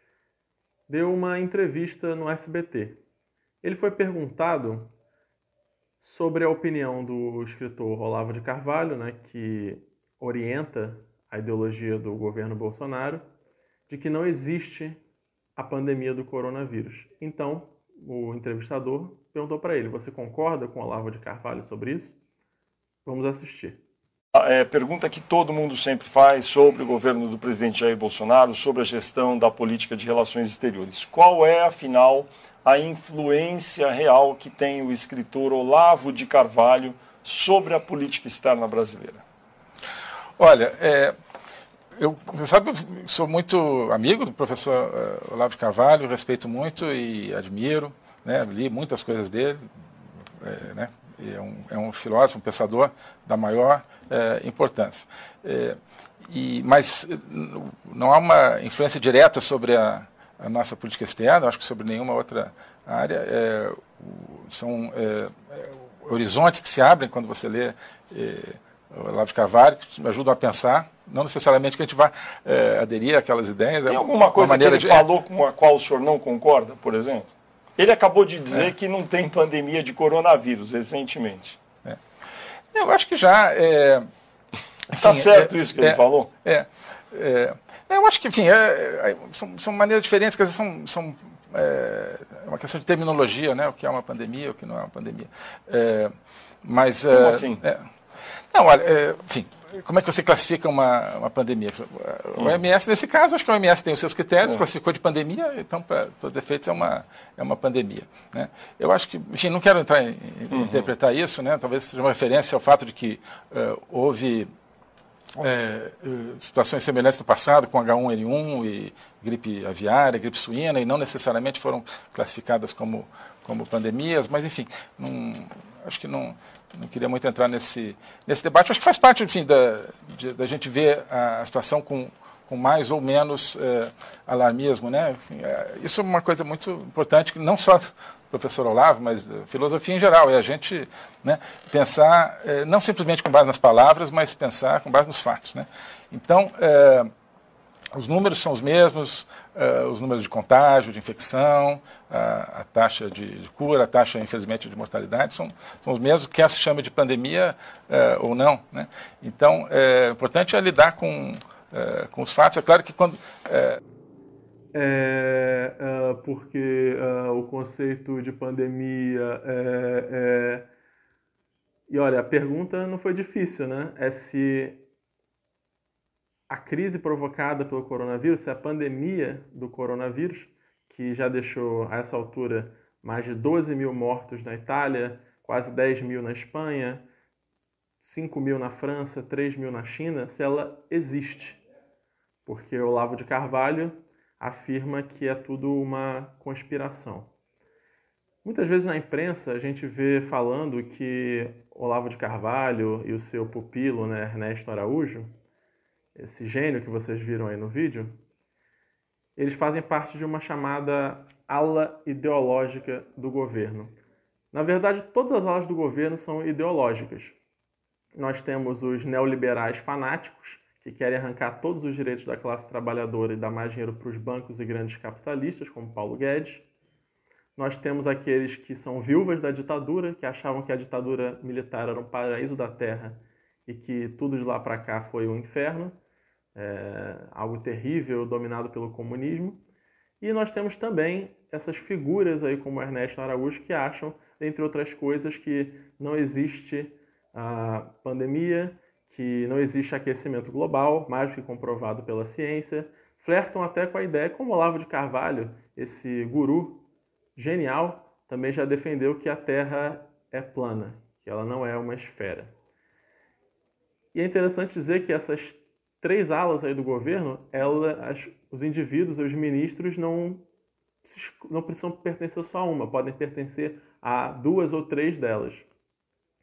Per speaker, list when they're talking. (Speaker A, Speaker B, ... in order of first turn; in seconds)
Speaker A: 0.9-3.0, 3.6-4.9, 6.0-13.2, 13.9-15.0, 15.6-22.1, 23.0-23.8, 164.7-170.6, 171.9-174.8, 176.5-187.1, 188.0-191.6, 192.4-197.3, 198.4-205.3, 206.1-208.2, 209.3-214.0, 214.5-217.4, 218.1-226.7, 227.6-235.9, 236.5-239.6, 240.2-256.8, 257.4-262.5, 264.1-270.4, 271.0-275.7
Speaker B: 24.3-39.2, 73.9-81.6, 84.9-86.3, 97.1-97.6, 110.5-110.9
Speaker C: 40.4-41.1, 42.0-49.6, 50.4-55.8, 56.3-75.1, 82.7-84.0, 84.9-96.1, 96.6-97.8, 98.5-114.5, 115.4-147.1, 147.9-163.8